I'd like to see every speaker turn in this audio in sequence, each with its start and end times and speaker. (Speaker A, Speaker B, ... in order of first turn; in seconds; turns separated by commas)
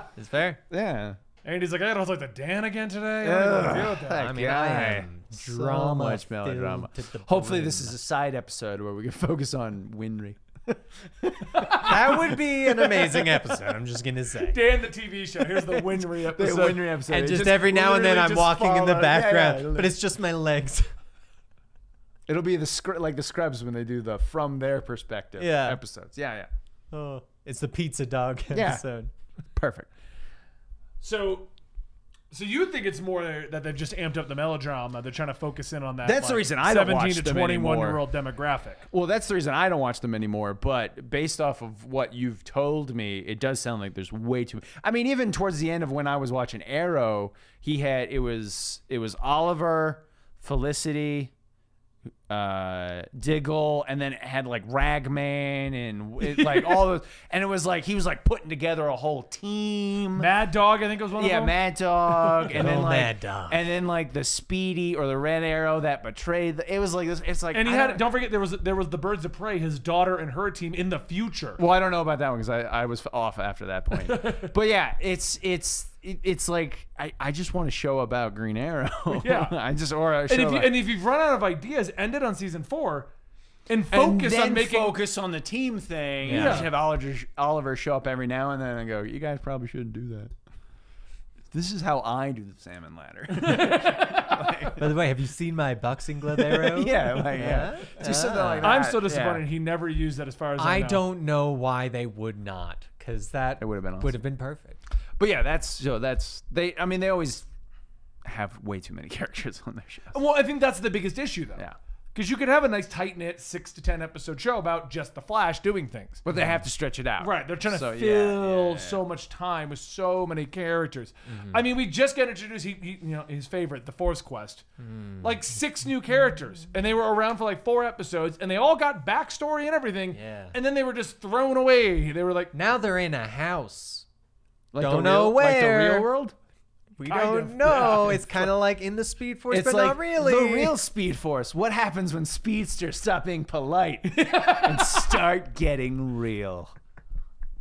Speaker A: 0.1-0.6, Speaker B: 0.7-1.2, Speaker C: 1.4-4.3, Speaker B: 3.2-12.2, Speaker A: 4.0-7.9, Speaker C: 11.5-12.2, Speaker A: 11.7-14.6, Speaker C: 14.5-16.9, Speaker B: 15.7-19.9, Speaker A: 17.1-20.9, Speaker B: 22.3-26.5, Speaker A: 25.4-25.8, Speaker A: 26.9-29.1, Speaker B: 28.5-28.8, Speaker B: 29.6-29.9, Speaker C: 31.0-31.5, Speaker C: 32.3-38.8, Speaker B: 36.0-38.0, Speaker B: 38.9-51.3, Speaker B: 52.3-60.3, Speaker C: 56.4-56.7, Speaker C: 60.1-61.5, Speaker B: 61.2-68.0, Speaker C: 62.1-62.5, Speaker A: 62.5-63.6, Speaker C: 67.5-71.6, Speaker B: 71.6-80.8, Speaker C: 73.9-74.5, Speaker C: 79.1-79.5, Speaker C: 80.3-83.1, Speaker C: 83.7-85.0, Speaker B: 83.9-90.3, Speaker A: 86.2-86.7, Speaker C: 86.2-86.7, Speaker B: 91.5-94.9, Speaker C: 93.3-94.5, Speaker A: 94.8-98.8, Speaker B: 96.4-99.4, Speaker C: 98.6-101.0, Speaker A: 100.6-104.8, Speaker B: 103.6-104.1, Speaker B: 105.2-107.5, Speaker B: 108.2-110.2, Speaker C: 110.1-116.2, Speaker B: 116.2-119.0, Speaker C: 117.2-124.6, Speaker A: 121.3-121.6, Speaker A: 124.8-125.3, Speaker C: 125.2-132.5, Speaker A: 130.1-130.5, Speaker A: 132.5-134.1, Speaker B: 134.7-136.3, Speaker A: 134.8-136.1, Speaker A: 137.0-140.8, Speaker C: 137.1-138.4, Speaker B: 139.5-146.7, Speaker C: 144.1-145.2